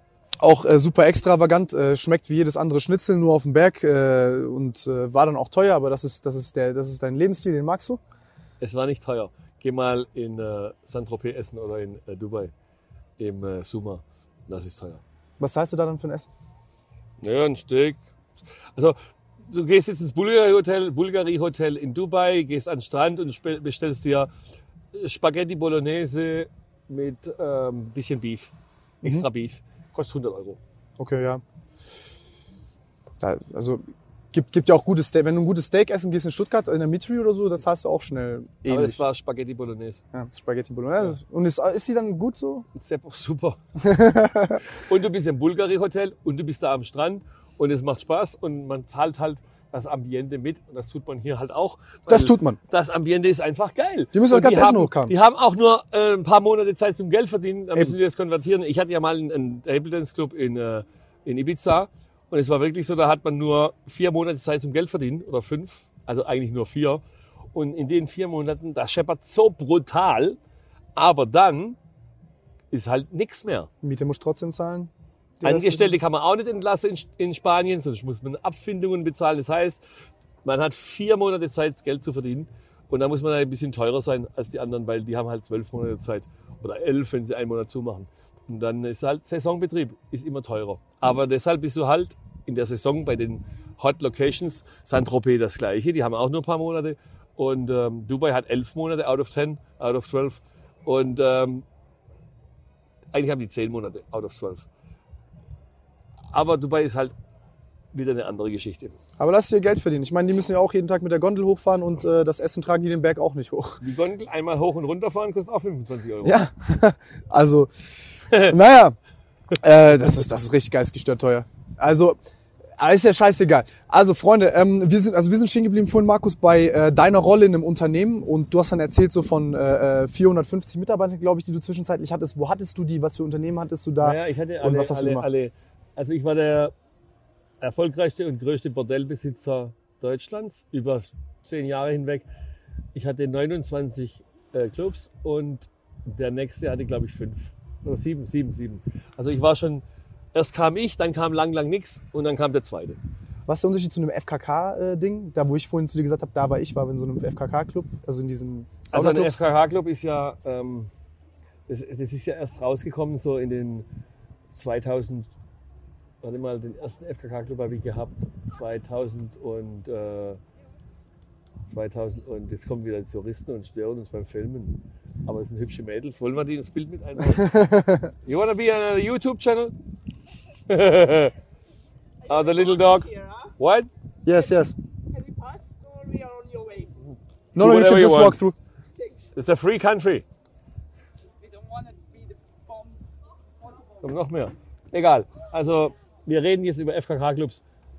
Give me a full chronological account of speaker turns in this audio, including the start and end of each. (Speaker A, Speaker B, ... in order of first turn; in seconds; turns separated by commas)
Speaker A: 0.4-8.0, Speaker B: 8.6-12.5, Speaker B: 13.2-15.0, Speaker A: 15.4-16.3, Speaker B: 17.2-18.0, Speaker B: 19.5-24.3, Speaker B: 24.9-28.5, Speaker B: 29.0-30.6, Speaker A: 31.0-31.4, Speaker A: 33.2-39.0, Speaker B: 38.7-40.0, Speaker A: 40.1-42.7, Speaker B: 42.8-43.6, Speaker A: 43.8-44.6, Speaker B: 44.7-67.0, Speaker A: 52.1-52.6, Speaker A: 54.1-55.1, Speaker B: 67.5-70.4, Speaker B: 71.0-71.8, Speaker B: 72.7-73.7, Speaker A: 73.8-74.9, Speaker A: 75.4-75.9, Speaker B: 75.4-79.8, Speaker B: 80.4-101.7, Speaker B: 103.1-104.7, Speaker B: 106.3-107.1, Speaker B: 107.9-109.0, Speaker A: 109.2-113.8, Speaker B: 113.8-116.4, Speaker A: 116.2-117.7, Speaker A: 118.3-119.0, Speaker A: 119.6-122.2, Speaker A: 122.8-135.3, Speaker B: 134.0-136.7, Speaker B: 137.6-142.3, Speaker B: 142.9-153.0, Speaker A: 153.5-159.3, Speaker B: 158.9-160.9, Speaker B: 161.7-163.9, Speaker B: 164.6-165.3, Speaker B: 166.2-170.4, Speaker B: 171.7-177.5, Speaker A: 177.3-178.1, Speaker B: 178.2-179.8, Speaker B: 180.7-181.3, Speaker B: 182.3-183.9, Speaker C: 182.3-183.3, Speaker A: 184.2-184.8, Speaker C: 185.1-186.9, Speaker A: 187.5-188.6, Speaker B: 187.6-188.4, Speaker B: 189.3-190.2, Speaker C: 191.4-193.0, Speaker B: 194.0-197.6